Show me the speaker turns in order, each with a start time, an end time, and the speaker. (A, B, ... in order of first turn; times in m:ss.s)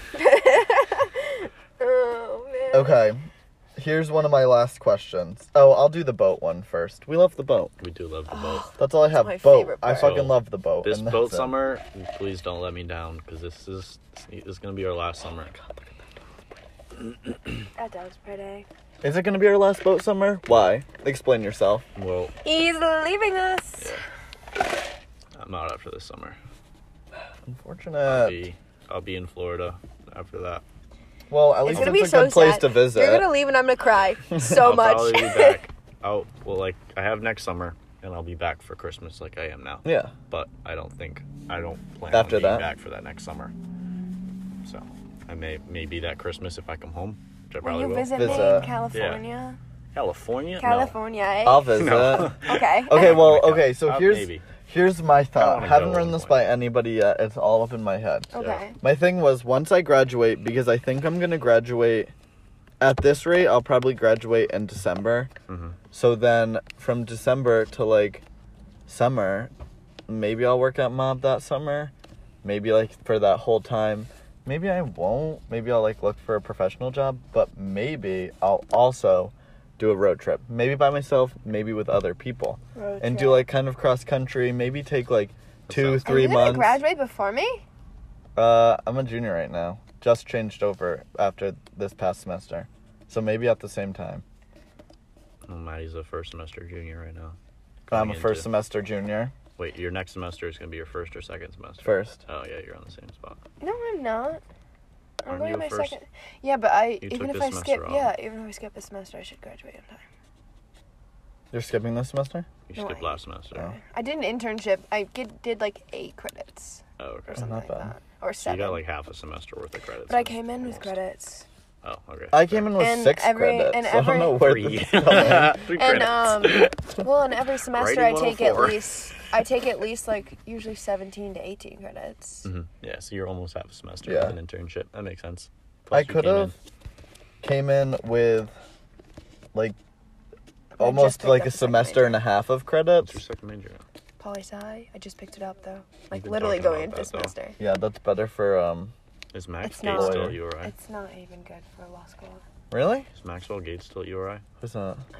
0:00.1-0:03.0 A
0:02.7-0:03.2 B
0:03.8-0:07.7 B
0:07.8-0:08.7 C
0:08.3-0:10.2 A
0:08.8-0:11.5 B
0:10.0-0:15.6 C
0:15.5-0:16.1 B
0:17.8-0:18.7 A
0:19.0-0:21.8 B
0:22.0-0:22.3 C
0:22.4-0:23.9 A
0:25.4-0:26.4 C
0:27.4-0:28.4 B
0:28.0-0:30.6 C
0:31.3-0:33.3 B
0:31.6-0:35.6 A
0:31.7-0:32.0 C
0:34.3-0:43.5 C
0:39.8-0:40.1 B
0:42.1-0:42.7 B
0:44.6-0:49.2 C
0:47.6-0:49.6 A
0:48.1-0:48.8 B
0:49.9-0:50.9 C
0:50.6-0:53.2 A
0:51.4-0:58.3 B
0:51.7-0:54.4 C
0:55.3-0:56.4 C
0:58.3-0:58.8 A
0:58.8-1:02.1 B
1:02.8-1:05.3 B
1:05.5-1:05.8 C
1:05.9-1:08.2 B
1:08.9-1:09.5 B
1:10.1-1:11.9 B
1:12.4-1:26.8 B
1:22.8-1:23.5 A
1:25.7-1:26.2 C
1:26.0-1:27.6 A
1:28.4-1:34.2 B
1:35.4-1:38.5 C
1:37.9-1:39.3 B
1:39.6-1:43.4 C
1:41.8-1:42.2 B
1:43.6-1:44.4 A
1:45.2-1:50.0 A
1:45.2-1:46.0 C
1:47.0-1:48.1 C
1:51.5-1:52.5 B
1:52.7-1:53.7 C
1:52.7-1:58.8 A
1:57.0-1:57.4 C
1:57.4-1:57.9 B
1:58.4-2:01.0 C
2:00.1-2:01.4 A
2:01.8-2:02.7 C
2:02.3-2:05.6 B
2:02.8-2:04.5 A
2:04.3-2:06.8 C
2:05.4-2:12.5 A
2:07.7-2:09.2 C
2:12.4-2:16.5 C
2:14.0-2:14.4 B
2:15.9-2:16.5 B
2:17.4-2:18.5 B
2:20.8-2:22.2 A
2:20.8-2:23.2 B
2:23.0-2:23.8 C
2:24.2-2:27.6 A
2:26.1-2:27.3 C
2:27.6-2:28.9 B
2:29.3-2:30.7 C
2:29.6-2:32.4 A
2:29.9-2:30.4 B
2:32.7-2:33.1 B
2:33.1-2:34.4 C
2:34.6-2:35.0 B